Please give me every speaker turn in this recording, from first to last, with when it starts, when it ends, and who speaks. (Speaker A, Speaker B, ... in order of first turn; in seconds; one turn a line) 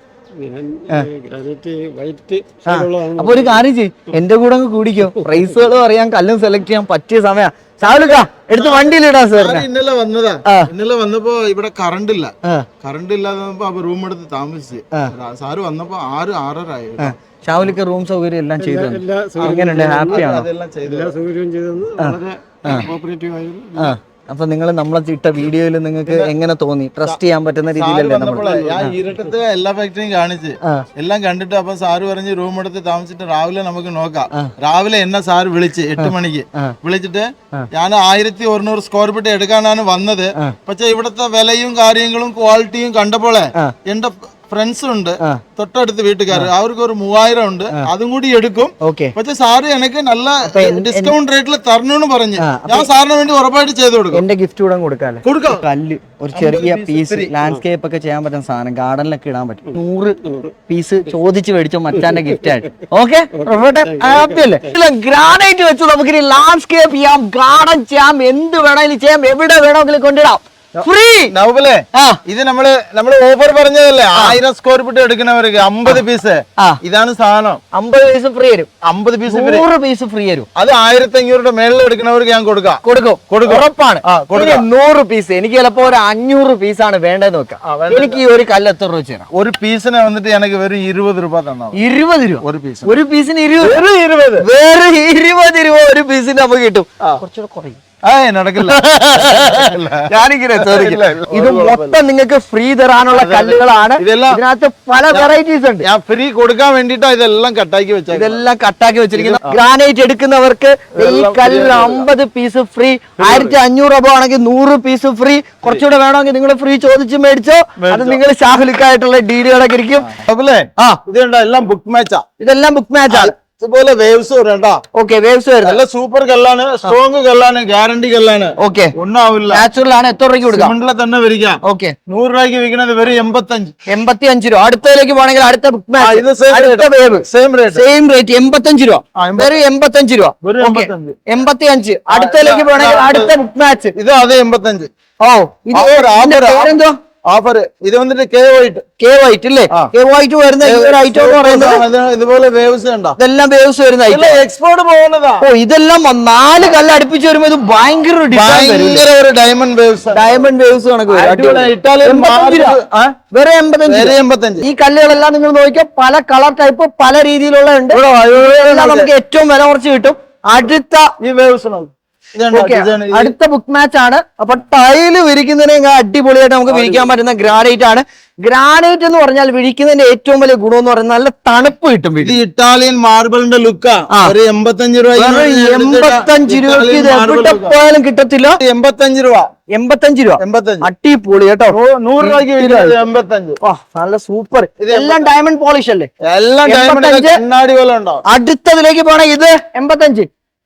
Speaker A: 0.4-3.6
Speaker B: 2.7-9.7
Speaker C: 7.8-17.1
Speaker B: 10.4-10.7
Speaker B: 17.0-20.5
Speaker A: 18.6-20.3
Speaker C: 19.4-21.1
Speaker A: 20.8-24.0
Speaker B: 22.0-22.9
Speaker B: 23.8-28.9
Speaker C: 26.1-26.3
Speaker C: 27.7-54.2
Speaker A: 28.3-29.1
Speaker B: 36.0-36.8
Speaker B: 48.8-49.1
Speaker B: 50.5-51.1
Speaker B: 52.4-52.9
Speaker B: 54.1-71.3
Speaker C: 55.2-55.6
Speaker C: 56.3-57.5
Speaker A: 60.2-60.5
Speaker A: 62.0-62.3
Speaker A: 63.4-64.7
Speaker C: 70.8-77.6
Speaker B: 71.9-72.2
Speaker B: 77.7-78.7
Speaker C: 78.8-79.7
Speaker B: 79.3-80.5
Speaker C: 80.5-84.7
Speaker B: 82.8-89.3
Speaker C: 87.6-88.2
Speaker C: 89.3-91.8
Speaker B: 91.7-93.8
Speaker C: 92.4-92.9
Speaker C: 93.6-94.5
Speaker B: 94.4-97.8
Speaker C: 98.0-102.0
Speaker B: 98.6-105.9
Speaker C: 103.1-104.4
Speaker C: 105.8-108.4
Speaker B: 108.1-120.1
Speaker C: 109.2-109.6
Speaker C: 111.0-112.1
Speaker C: 113.2-113.6
Speaker C: 117.8-118.2
Speaker C: 120.1-122.2
Speaker B: 122.4-123.3
Speaker C: 123.1-124.8
Speaker B: 124.9-125.8
Speaker C: 125.6-129.7
Speaker B: 128.6-129.0
Speaker B: 129.5-130.7
Speaker C: 130.5-133.8
Speaker B: 131.6-131.9
Speaker B: 133.9-143.9
Speaker C: 136.0-137.9
Speaker C: 139.2-139.5
Speaker C: 140.4-141.2
Speaker C: 142.1-143.3
Speaker C: 143.9-144.9
Speaker B: 145.2-147.0
Speaker C: 145.7-146.8
Speaker C: 147.3-148.9
Speaker B: 149.0-151.9
Speaker C: 150.6-153.2
Speaker B: 153.2-154.4
Speaker C: 154.1-155.5
Speaker B: 155.4-159.1
Speaker C: 158.3-160.4
Speaker B: 160.1-162.8
Speaker C: 161.1-163.2
Speaker B: 163.3-171.1
Speaker C: 163.8-164.7
Speaker C: 167.9-169.1
Speaker C: 171.2-173.3
Speaker B: 172.5-182.4
Speaker C: 176.7-177.1
Speaker C: 182.2-187.8
Speaker B: 185.2-188.6
Speaker C: 188.6-189.5
Speaker B: 189.7-193.0
Speaker C: 190.4-190.9
Speaker C: 191.7-193.6
Speaker B: 193.6-196.1
Speaker C: 194.8-195.3
Speaker C: 196.2-198.2
Speaker B: 196.7-197.4
Speaker B: 198.3-200.3